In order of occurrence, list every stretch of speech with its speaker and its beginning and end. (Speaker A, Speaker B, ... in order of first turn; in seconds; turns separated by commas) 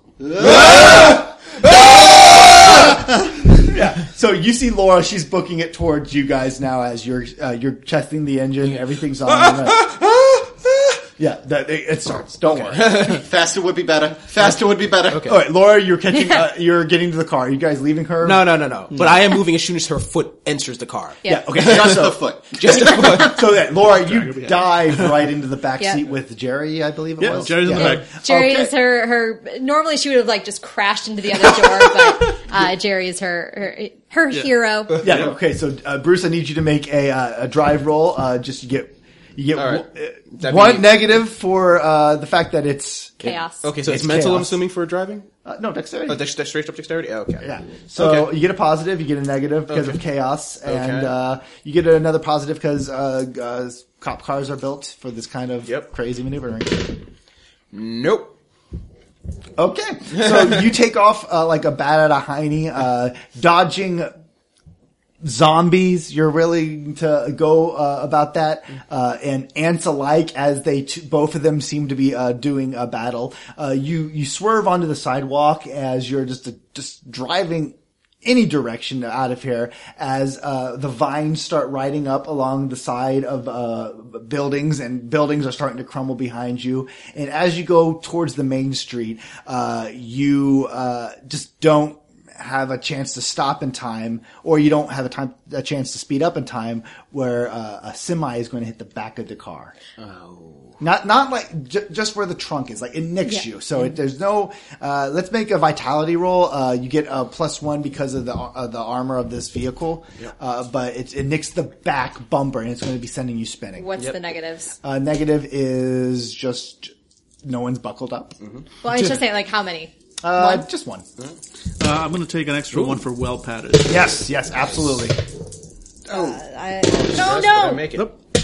Speaker A: 0.2-2.9, Speaker B: 0.5-1.1, Speaker B: 2.6-13.0, Speaker C: 9.3-9.9, Speaker C: 12.7-13.2, Speaker A: 12.8-15.3, Speaker C: 15.1-15.4, Speaker B: 15.2-18.5, Speaker C: 18.2-23.5, Speaker B: 21.2-28.7, Speaker A: 21.6-22.9, Speaker D: 24.0-25.0, Speaker D: 27.2-28.1, Speaker E: 27.8-35.0, Speaker B: 35.0-43.3, Speaker C: 39.5-41.0, Speaker E: 43.2-43.7, Speaker C: 43.2-45.3, Speaker B: 43.8-44.6, Speaker B: 45.5-46.2, Speaker C: 46.1-48.3, Speaker B: 47.4-57.0, Speaker C: 49.7-50.0, Speaker C: 50.6-51.1, Speaker C: 57.7-58.4, Speaker B: 59.6-64.1, Speaker B: 65.2-99.8, Speaker C: 100.0-100.8, Speaker B: 100.8-113.9, Speaker E: 113.8-114.7, Speaker B: 114.8-118.4, Speaker E: 118.8-120.7, Speaker B: 120.2-121.1, Speaker D: 121.8-124.0, Speaker C: 122.7-123.0, Speaker B: 123.8-125.2, Speaker E: 126.1-127.9, Speaker B: 126.1-126.4, Speaker C: 126.9-128.1, Speaker D: 128.0-128.2